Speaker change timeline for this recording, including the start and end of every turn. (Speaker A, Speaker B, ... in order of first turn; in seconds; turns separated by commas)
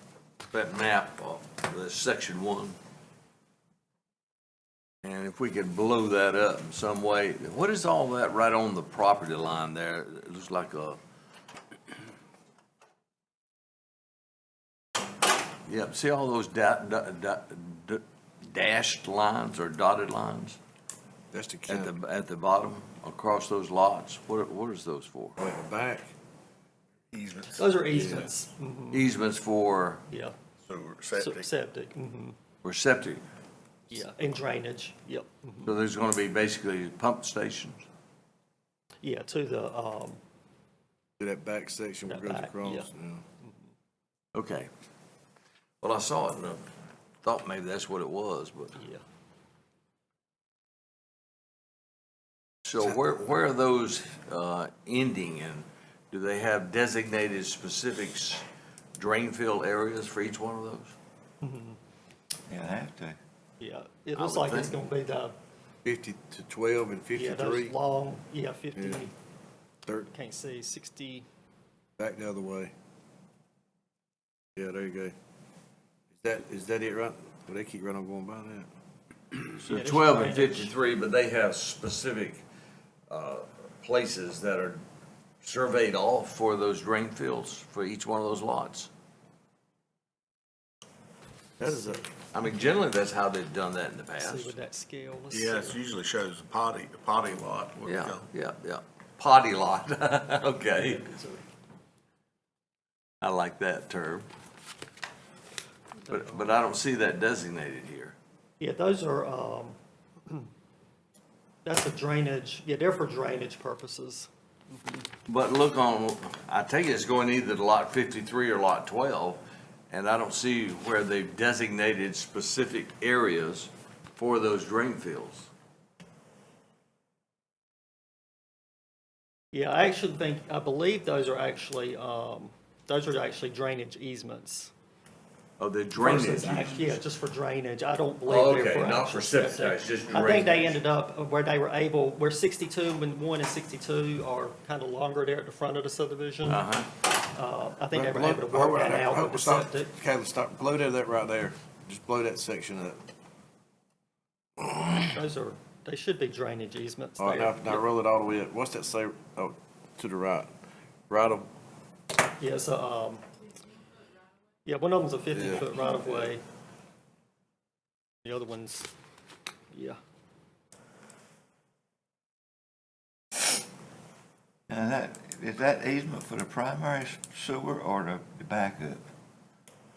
Speaker A: 0.5-2.8, Speaker A: 5.0-11.0, Speaker A: 15.7-20.6, Speaker B: 21.3-21.9, Speaker A: 21.7-25.4, Speaker B: 25.4-26.1, Speaker C: 27.1-27.9, Speaker D: 27.5-29.1, Speaker B: 27.9-28.3, Speaker A: 28.9-30.0, Speaker C: 30.6-31.5, Speaker D: 31.1-32.4, Speaker A: 32.6-33.2, Speaker D: 33.9-35.7, Speaker A: 35.6-37.9, Speaker D: 39.0-40.2, Speaker B: 41.2-43.2, Speaker D: 42.1-42.9, Speaker A: 44.3-44.7, Speaker A: 45.8-46.6, Speaker A: 47.2-48.8, Speaker D: 48.8-49.0, Speaker A: 52.6-58.4, Speaker A: 59.0-61.0, Speaker D: 61.4-61.8, Speaker E: 62.5-63.2, Speaker D: 63.6-65.3, Speaker A: 64.2-64.8, Speaker B: 65.8-67.8, Speaker D: 67.1-69.1, Speaker B: 68.8-69.0, Speaker D: 70.1-71.2, Speaker B: 72.0-72.7, Speaker B: 74.5-75.1, Speaker B: 76.1-78.7, Speaker A: 79.5-82.4, Speaker D: 79.7-80.7, Speaker A: 83.1-84.8, Speaker A: 85.4-88.9, Speaker D: 91.6-92.0, Speaker A: 92.3-94.5, Speaker D: 94.2-95.8, Speaker C: 95.3-98.2, Speaker A: 97.8-101.3, Speaker A: 103.2-104.3, Speaker A: 106.1-108.2, Speaker D: 108.6-110.5, Speaker D: 111.7-114.3, Speaker A: 115.2-125.5, Speaker D: 129.5-134.7, Speaker A: 135.6-137.0, Speaker D: 135.9-149.9, Speaker A: 138.2-140.8, Speaker A: 146.4-146.9, Speaker B: 147.9-153.0, Speaker B: 154.6-155.2, Speaker D: 155.1-157.8, Speaker B: 157.2-160.5, Speaker B: 161.1-161.5, Speaker D: 162.4-163.2, Speaker D: 164.6-166.4, Speaker B: 165.3-166.3, Speaker D: 168.2-168.9, Speaker D: 169.7-170.0, Speaker E: 174.7-179.0